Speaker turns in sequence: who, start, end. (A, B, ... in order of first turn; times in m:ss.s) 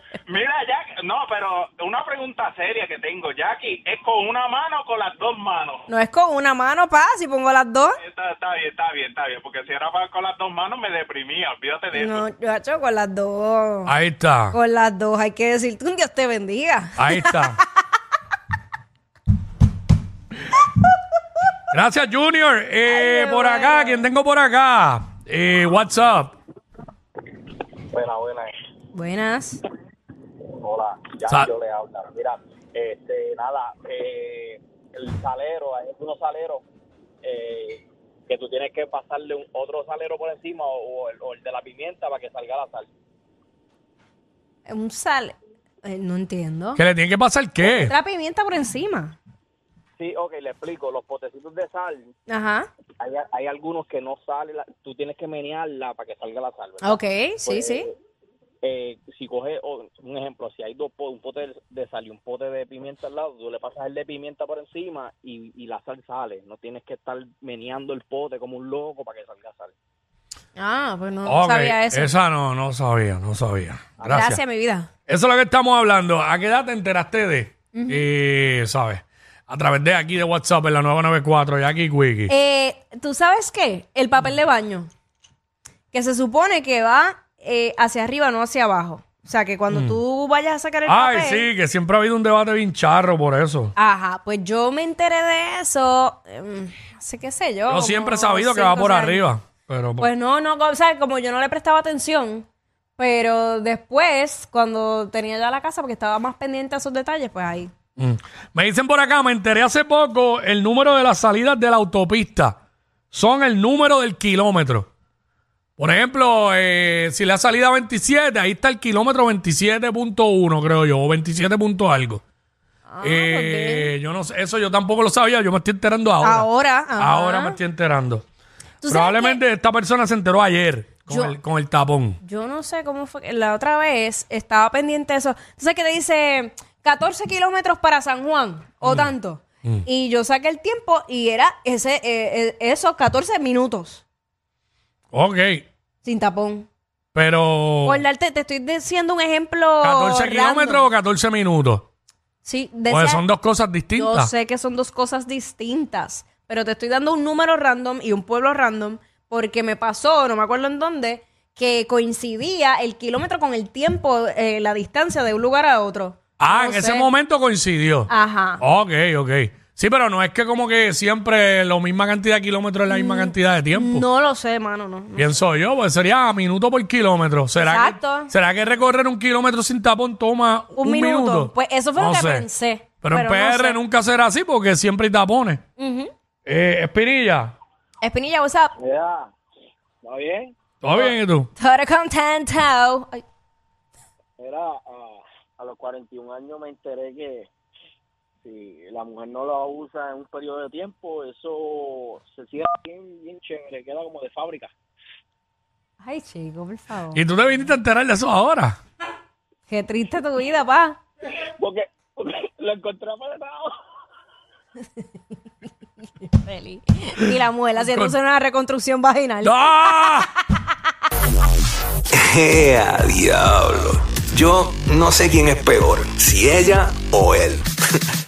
0:00.3-0:05.8 A
0:05.9-0:08.0 B
0:08.0-0:12.2 A
0:11.9-0:13.9 B
0:13.8-0:14.6 C
0:14.5-0:17.6 B
0:17.0-0:17.6 C
0:21.7-0:26.4 C
0:22.8-0:24.1 B
0:27.9-0:28.5 D
0:28.9-0:29.6 B
0:30.6-0:36.6 D
0:37.2-0:42.9 D
0:44.6-0:46.8 B
0:46.8-0:47.9 C
0:47.6-0:49.2 B
0:50.0-0:52.1 D
0:52.3-0:52.7 B
0:53.0-0:57.9 D
0:56.8-0:57.9 B
0:58.6-1:09.7 D
1:10.6-1:12.1 B
1:11.2-1:14.4 C
1:14.0-1:14.9 B
1:15.1-1:22.3 C
1:17.7-1:18.0 B
1:22.3-1:24.9 B
1:25.9-1:31.5 B
1:29.7-1:30.0 C
1:30.8-1:33.7 C
1:33.8-1:39.3 B
1:37.7-1:40.1 C
1:40.0-1:47.7 B
1:48.0-1:52.6 C
1:53.1-1:54.9 C
1:55.8-2:02.2 C
2:02.9-2:03.9 B
2:03.0-2:08.2 C
2:06.2-2:07.6 B
2:08.8-2:09.4 B
2:08.9-2:12.2 C
2:11.1-2:11.3 B
2:12.2-2:24.0 B
2:18.8-2:19.1 C
2:25.1-2:25.6 C
2:26.0-2:26.7 B
2:27.1-2:28.0 C
2:27.8-2:30.9 B
2:29.8-2:31.9 C
2:32.4-2:33.2 B
2:32.9-2:34.3 C
2:33.9-2:47.1 B
2:46.4-2:54.0 C
2:48.1-2:48.6 B
2:52.9-2:55.4 B
2:55.1-3:02.5 C
2:57.6-2:58.3 B
3:00.8-3:03.8 B
3:03.0-3:05.6 C
3:05.8-3:06.1 B
3:06.4-3:07.5 C
3:08.0-3:08.7 B
3:08.8-3:09.3 D
3:10.0-3:10.5 D
3:10.8-3:11.5 C
3:10.9-3:13.2 B
3:14.4-3:17.5 D
3:18.4-3:24.7 D
3:26.0-3:27.6 B
3:27.1-3:28.8 C
3:29.7-3:31.0 B
3:31.6-3:33.7 D
3:36.2-3:40.2 B
3:37.8-3:38.2 C
3:39.4-3:40.3 C
3:42.1-3:47.6 E